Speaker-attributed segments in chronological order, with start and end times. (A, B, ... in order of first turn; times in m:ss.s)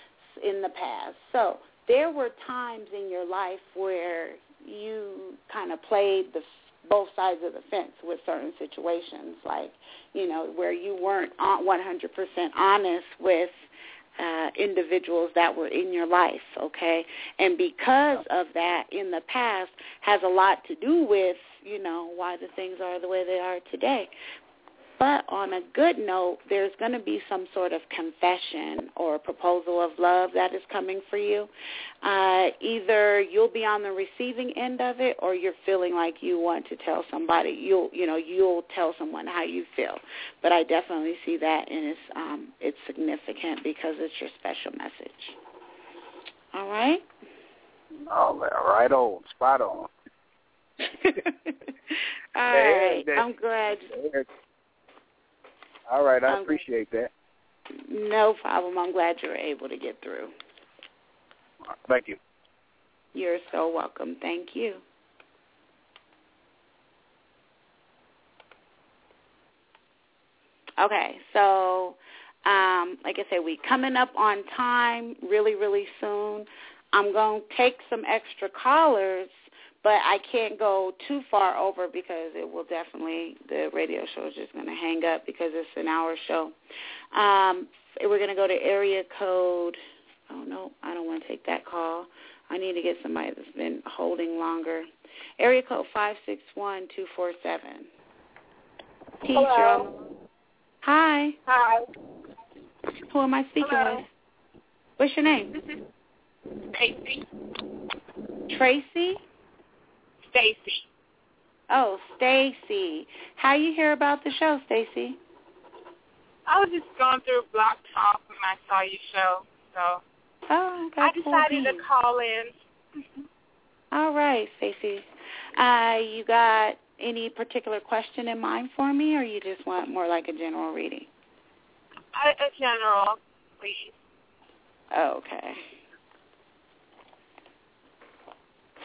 0:00.4-0:13.5 A
0:14.2-0:24.1 A
0:25.0-0:31.5 A
0:32.0-0:45.4 A
0:46.5-0:47.0 A
0:48.1-0:49.9 B
0:51.0-0:51.5 A
0:52.4-0:53.9 A
0:52.5-0:53.3 B
0:53.9-0:54.3 B
0:55.9-0:57.1 B
0:56.3-0:56.6 A
0:57.9-1:00.3 A
1:01.9-1:02.2 B
1:03.1-1:04.8 A
1:10.8-1:19.3 A
1:19.8-1:26.6 A
1:27.1-1:34.9 A
1:35.4-1:37.9 A
1:39.2-1:39.9 A
1:39.3-1:39.9 C
1:40.8-1:41.4 A
1:41.5-1:41.8 C
1:43.1-1:44.0 A
1:43.6-1:44.0 C
1:45.0-1:45.5 A
1:45.5-1:45.8 C
1:46.7-1:47.2 C
1:48.5-1:49.2 A
1:50.3-1:50.8 C
1:51.7-1:55.2 A
1:56.5-2:00.0 C
2:00.5-2:01.9 A
2:01.0-2:02.5 C
2:03.9-2:05.0 A
2:05.6-2:11.1 A
2:12.1-2:13.9 C
2:14.9-2:15.6 A